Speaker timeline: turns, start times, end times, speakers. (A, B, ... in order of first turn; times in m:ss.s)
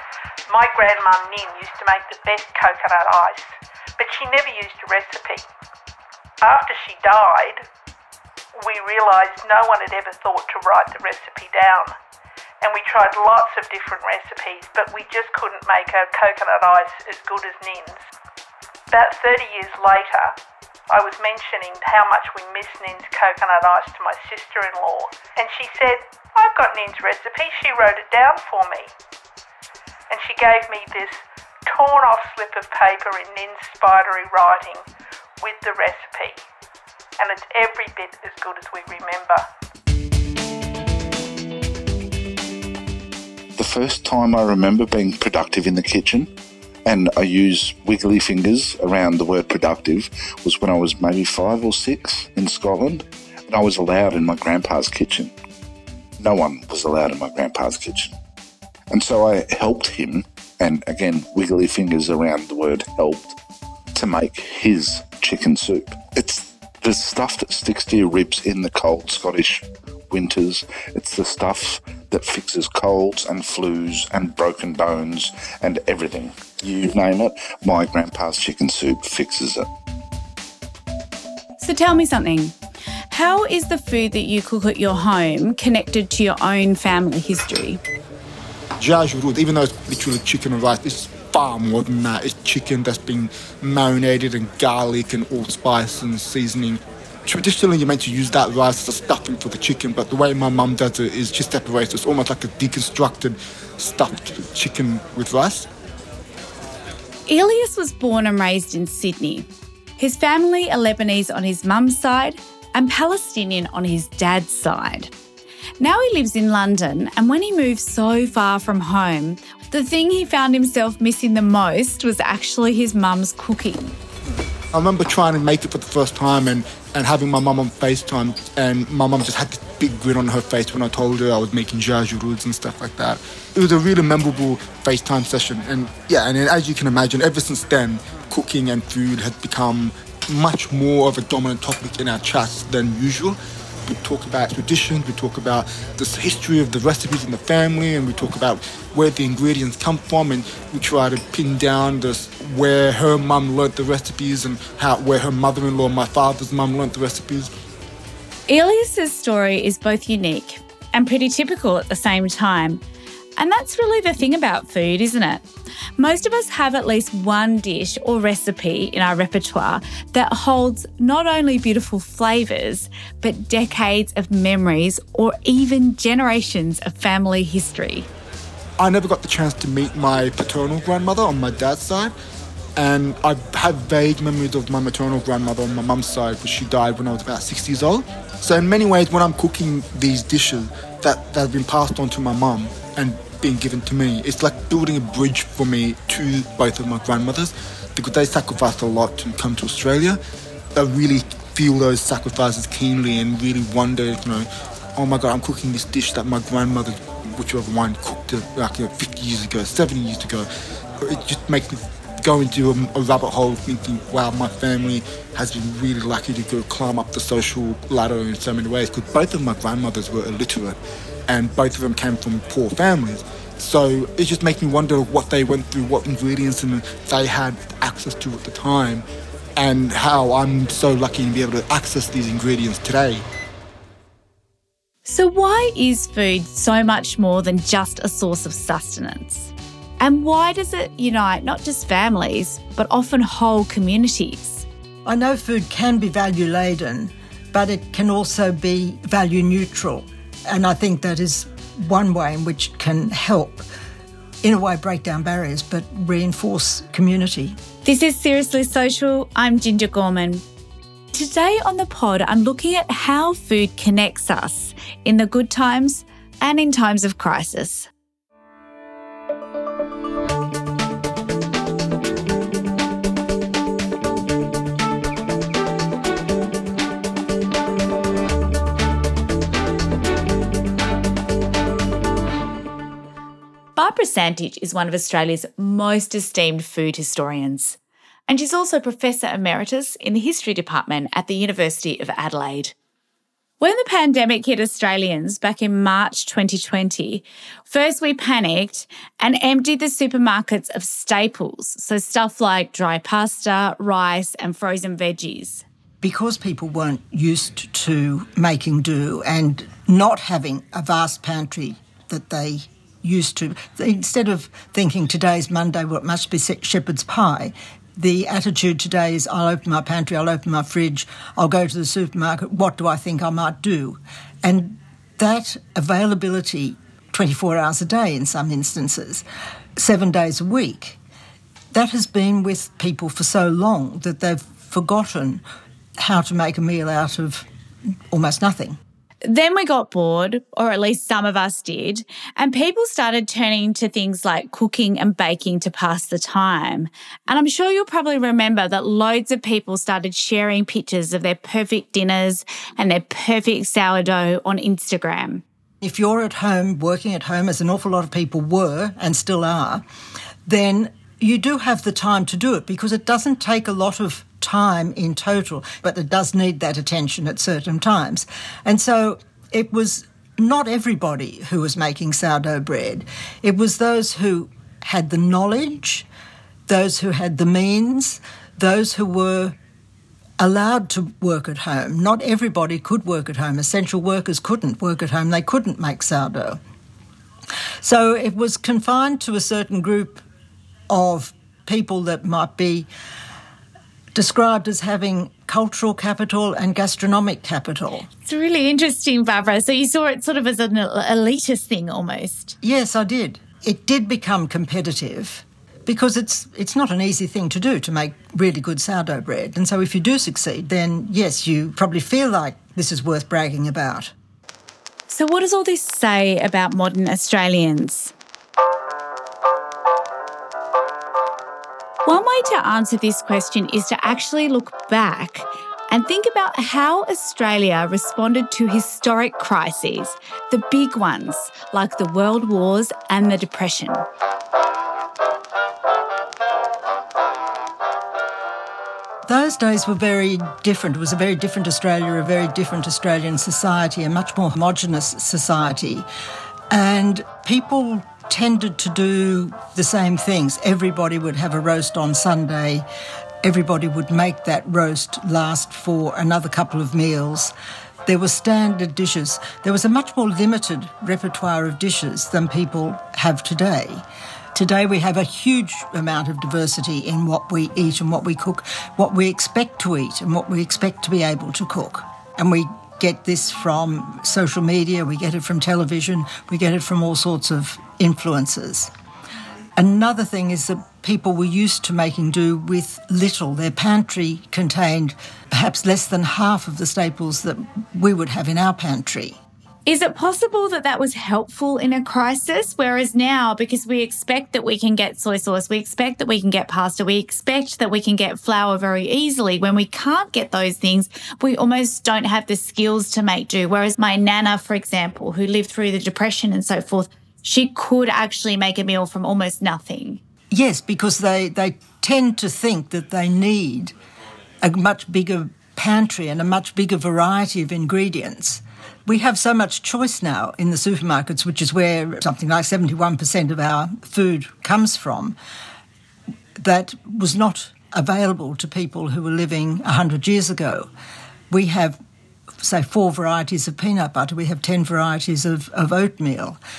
0:00.5-0:05.4 A
0:06.4-0:07.6 A
0:08.6-0:12.0 A
0:12.6-0:18.0 A
0:18.9-0:20.4 A
0:20.9-0:28.9 A
0:30.1-0:34.8 A
0:35.4-0:36.4 A
0:37.2-0:39.4 A
0:43.6-0:46.3 B
0:46.9-0:55.3 B
0:56.2-0:58.1 B
0:58.9-1:03.4 B
1:03.9-1:19.7 B
1:21.6-1:22.6 C
1:23.1-1:27.8 C
1:28.8-1:45.7 D
1:47.3-1:55.1 C
1:55.8-2:04.0 C
2:04.7-2:37.5 D
2:38.5-2:42.8 C
2:43.4-2:45.5 C
2:46.0-2:58.1 C
2:58.8-3:02.1 D
3:02.8-3:20.2 D
3:20.8-3:30.5 D
3:31.0-3:40.8 D
3:41.3-3:49.0 D
3:49.6-3:53.2 D
3:55.0-4:04.7 C
4:05.0-4:13.7 E
4:14.4-4:17.6 E
4:17.8-4:20.4 C
4:21.1-4:27.9 C
4:43.8-4:52.7 C
4:53.6-5:05.6 C
5:06.0-5:29.2 E
5:29.8-5:31.0 E
5:31.7-5:35.4 E
5:36.0-5:37.4 E
5:38.1-5:38.8 E
5:39.2-5:55.4 C
5:55.8-5:59.8 E
6:00.5-6:16.1 E
6:16.7-6:19.6 E
6:20.4-6:26.6 E
6:27.8-6:30.2 E
6:30.9-6:32.9 E
6:34.2-6:38.1 E
6:38.2-6:42.6 C
6:42.6-6:54.1 E
6:55.1-6:58.1 C
7:02.0-7:14.1 C
7:19.3-7:26.1 E
7:26.7-7:32.9 E
7:33.4-7:37.5 E
7:38.0-7:58.9 E
7:59.8-8:09.4 E
8:09.9-8:30.2 C
8:30.5-8:33.9 E
8:34.6-8:45.4 E
8:46.6-8:50.9 E
8:51.5-8:52.0 E
8:52.6-8:56.6 E